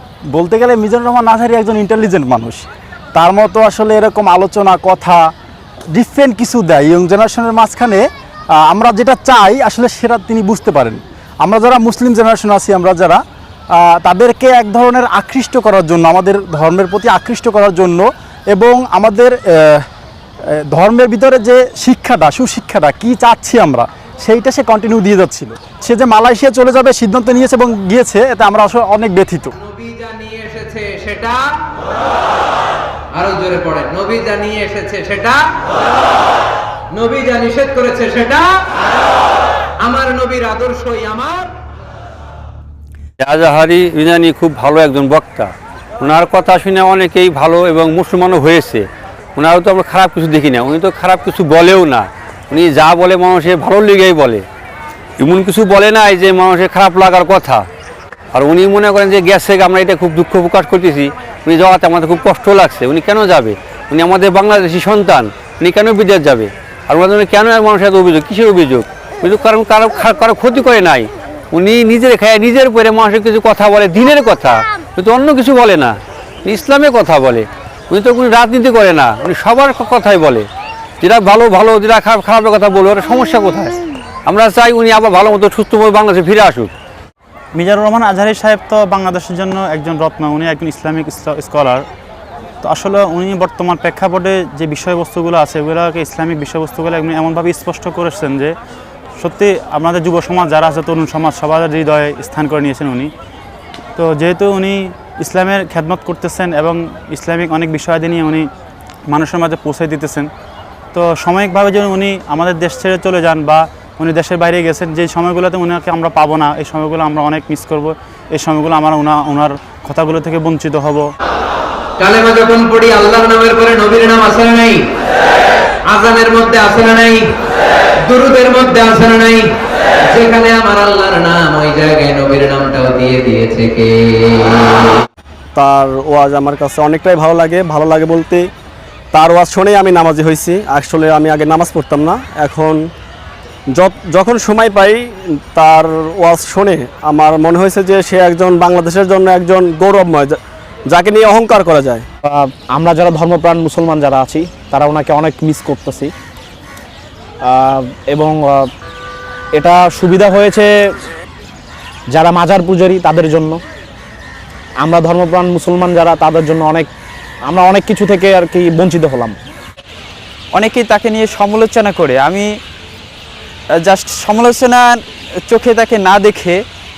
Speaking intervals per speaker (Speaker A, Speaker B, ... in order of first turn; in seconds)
Speaker A: 0.3-5.2, 5.9-8.1, 8.6-13.2, 13.8-19.8, 20.7-29.5
Speaker B: 29.6-31.6, 33.1-35.8, 36.9-38.8, 39.8-41.5, 122.0-124.8, 125.9-127.2, 128.1-129.5, 130.1-135.0
Speaker C: 43.2-45.5, 46.0-48.8, 49.4-54.4, 55.2-57.6, 58.4-75.9, 76.5-80.4, 81.0-83.7, 84.3-86.7
Speaker D: 87.5-91.8, 92.6-98.5, 99.2-103.1, 104.0-108.5, 109.1-110.3, 110.9-121.1
Speaker E: 135.6-138.4, 139.1-142.8, 143.7-150.4, 150.9-152.0
Speaker F: 152.3-156.1, 157.5-158.7, 159.5-160.7, 162.1-163.6, 164.8-166.9, 167.4-169.4
Speaker G: 170.5-172.5, 173.8-176.6